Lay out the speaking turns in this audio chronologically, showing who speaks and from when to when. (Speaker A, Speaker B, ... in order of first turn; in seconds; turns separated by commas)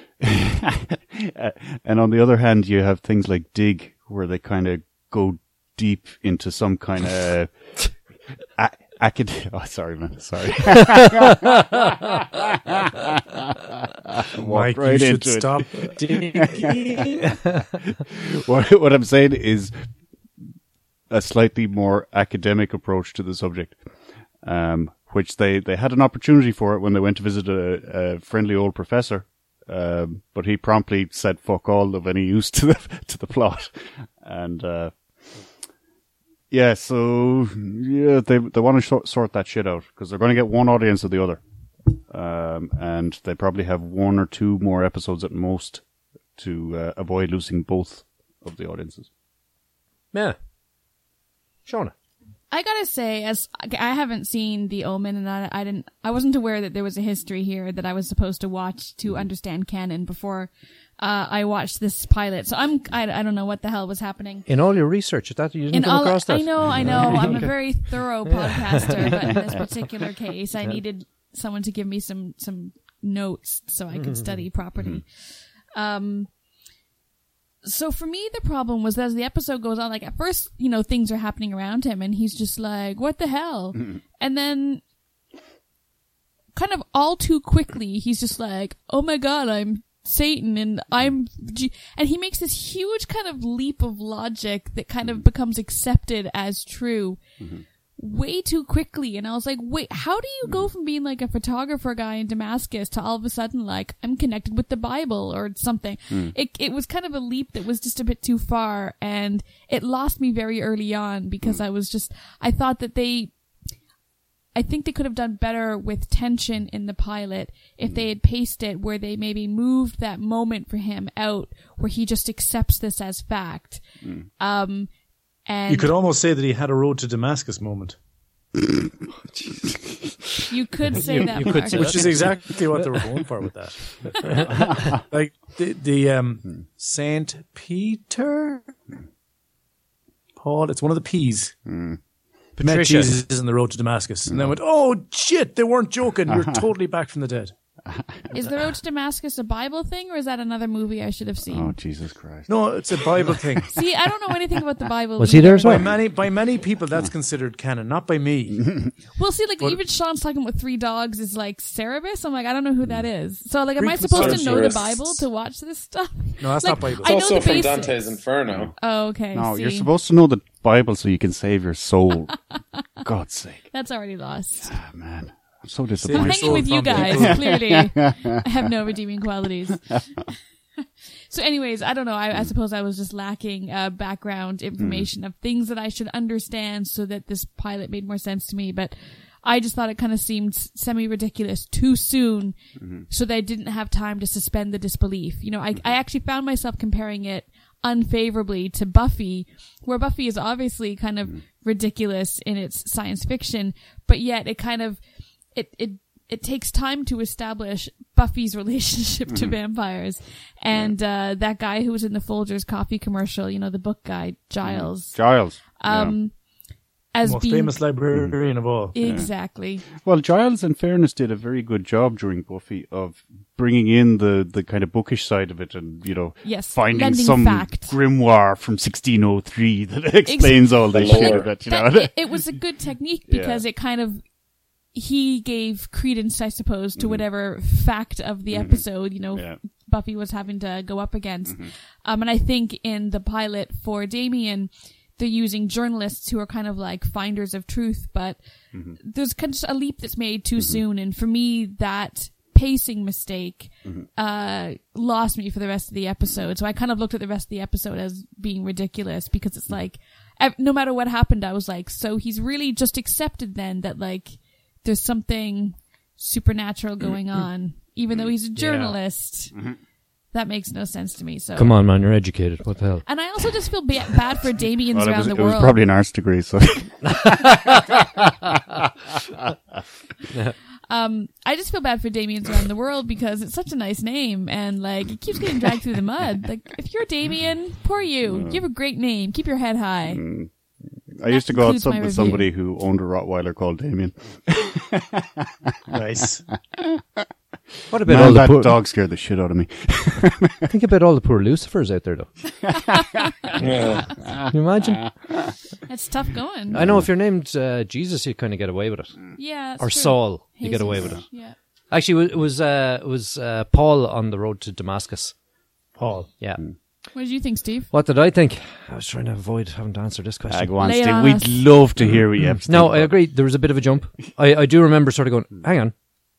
Speaker A: 0.2-7.5, Speaker A: 8.6-17.2, Speaker B: 14.4-17.3, Speaker A: 18.1-19.7, Speaker A: 21.1-23.8, Speaker A: 24.4-35.4, Speaker A: 36.5-41.4, Speaker A: 42.0-45.8, Speaker A: 46.4-49.1, Speaker C: 51.6-51.9, Speaker D: 52.5-64.5, Speaker C: 64.5-69.5, Speaker D: 65.7-75.1, Speaker A: 66.7-67.0, Speaker C: 73.9-74.4, Speaker D: 75.7-76.3, Speaker D: 77.6-84.8, Speaker D: 86.5-97.2, Speaker D: 98.0-113.3, Speaker D: 114.5-123.8, Speaker D: 124.4-124.9, Speaker D: 125.5-125.9, Speaker B: 125.7-128.0, Speaker C: 129.3-129.6, Speaker D: 130.5-132.1, Speaker C: 130.9-133.0, Speaker B: 131.7-138.6, Speaker C: 134.2-134.9, Speaker B: 140.4-141.5, Speaker A: 141.7-142.0, Speaker C: 142.6-143.2, Speaker B: 142.6-147.5, Speaker A: 144.3-144.5, Speaker A: 146.3-146.6, Speaker A: 147.8-148.3, Speaker D: 148.3-151.8, Speaker A: 151.5-152.5, Speaker B: 152.5-153.8, Speaker D: 153.7-155.9, Speaker C: 155.2-155.9, Speaker B: 155.6-158.9, Speaker D: 159.2-168.2, Speaker B: 163.8-164.7, Speaker E: 164.1-165.2, Speaker B: 166.4-167.1, Speaker E: 167.0-168.7, Speaker D: 168.8-169.9, Speaker A: 169.3-172.3, Speaker A: 173.0-173.7, Speaker D: 173.7-174.7, Speaker A: 174.6-178.4, Speaker B: 176.0-177.6, Speaker D: 176.1-180.3, Speaker D: 181.3-192.6, Speaker A: 184.8-185.1, Speaker A: 192.8-193.0, Speaker D: 193.1-205.0, Speaker D: 205.5-216.3, Speaker A: 209.3-209.6, Speaker A: 214.6-216.1, Speaker D: 217.1-217.9, Speaker B: 217.2-218.9, Speaker D: 218.9-219.9, Speaker A: 219.0-219.3, Speaker A: 219.9-232.4, Speaker D: 226.4-227.9, Speaker D: 230.2-234.2, Speaker E: 230.9-231.5, Speaker A: 233.3-233.6, Speaker D: 234.9-248.4, Speaker A: 237.0-237.2, Speaker A: 238.5-239.6, Speaker D: 249.0-269.5, Speaker C: 268.6-268.9, Speaker D: 270.3-271.7, Speaker C: 271.6-273.0, Speaker D: 273.1-275.8, Speaker A: 274.9-277.6, Speaker C: 277.0-278.0, Speaker D: 280.9-290.2, Speaker A: 288.3-288.6, Speaker A: 290.1-290.5, Speaker A: 291.1-295.9, Speaker D: 291.3-292.5, Speaker B: 295.9-296.4, Speaker A: 296.7-297.2, Speaker C: 297.9-298.8, Speaker A: 298.0-300.7, Speaker C: 300.7-302.3, Speaker A: 302.7-303.3, Speaker D: 302.9-303.6, Speaker E: 303.6-304.1, Speaker C: 304.5-305.1, Speaker D: 305.9-306.8, Speaker A: 306.7-307.0, Speaker C: 306.7-309.2, Speaker D: 309.4-311.5, Speaker C: 309.8-311.2, Speaker C: 311.9-315.3, Speaker B: 316.0-316.3, Speaker D: 317.1-317.9, Speaker C: 317.9-320.8, Speaker A: 320.5-323.2, Speaker D: 320.8-321.6, Speaker C: 322.6-325.9